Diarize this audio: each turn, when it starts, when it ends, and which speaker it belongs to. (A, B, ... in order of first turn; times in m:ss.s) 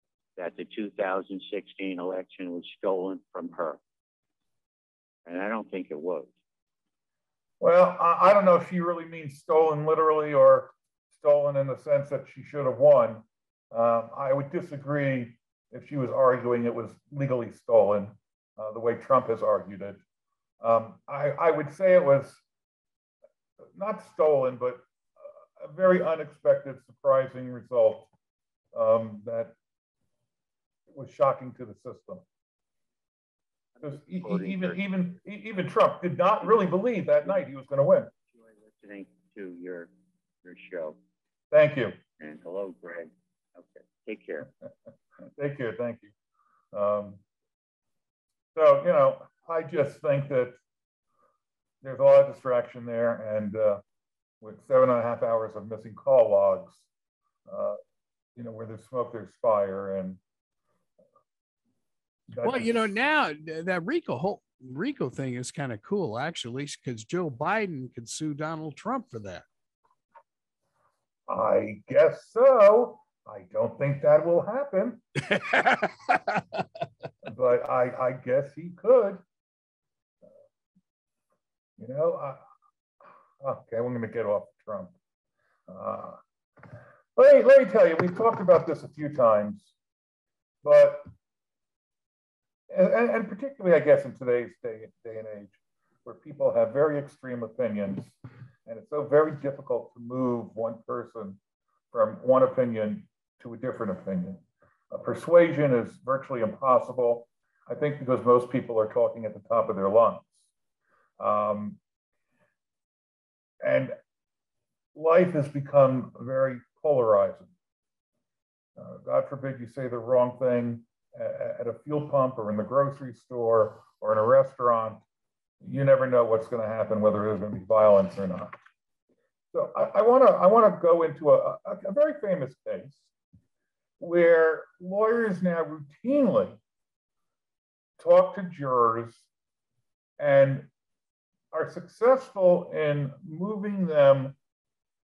0:00.4-0:03.8 A
0:05.2-0:06.3 A
0:07.6-0:20.0 B
0:20.6-0:22.4 B
0:23.7-0:24.8 B
0:25.6-0:28.1 B
0:28.7-0:29.5 B
0:30.9-0:32.2 B
0:33.8-0:34.8 A
0:33.8-0:38.1 B
0:38.4-0:39.9 A
0:40.4-0:41.0 A
0:41.5-0:42.0 B
0:42.2-0:44.5 A
0:45.4-0:46.1 B
0:46.7-0:47.2 B
0:48.5-0:50.6 B
0:51.8-0:53.8 B
0:54.4-0:56.9 B
0:57.5-0:57.8 B
0:58.4-1:00.2 B
1:02.3-1:02.9 B
1:02.4-1:09.4 C
1:11.3-1:15.0 B
1:15.2-1:16.6 C
1:17.2-1:19.2 B
1:21.8-1:22.4 B
1:23.4-1:24.9 B
1:25.7-1:26.2 B
1:27.2-1:29.7 B
1:30.6-1:31.1 B
1:32.7-1:41.4 B
1:41.9-1:50.5 B
1:51.2-1:51.8 B
1:53.6-1:53.9 B
1:54.9-1:57.5 B
1:58.8-2:05.0 B
2:05.6-2:08.6 B
2:09.5-2:13.1 B
2:14.0-2:16.6 B
2:18.0-2:19.3 B
2:20.2-2:20.7 B
2:21.5-2:24.4 B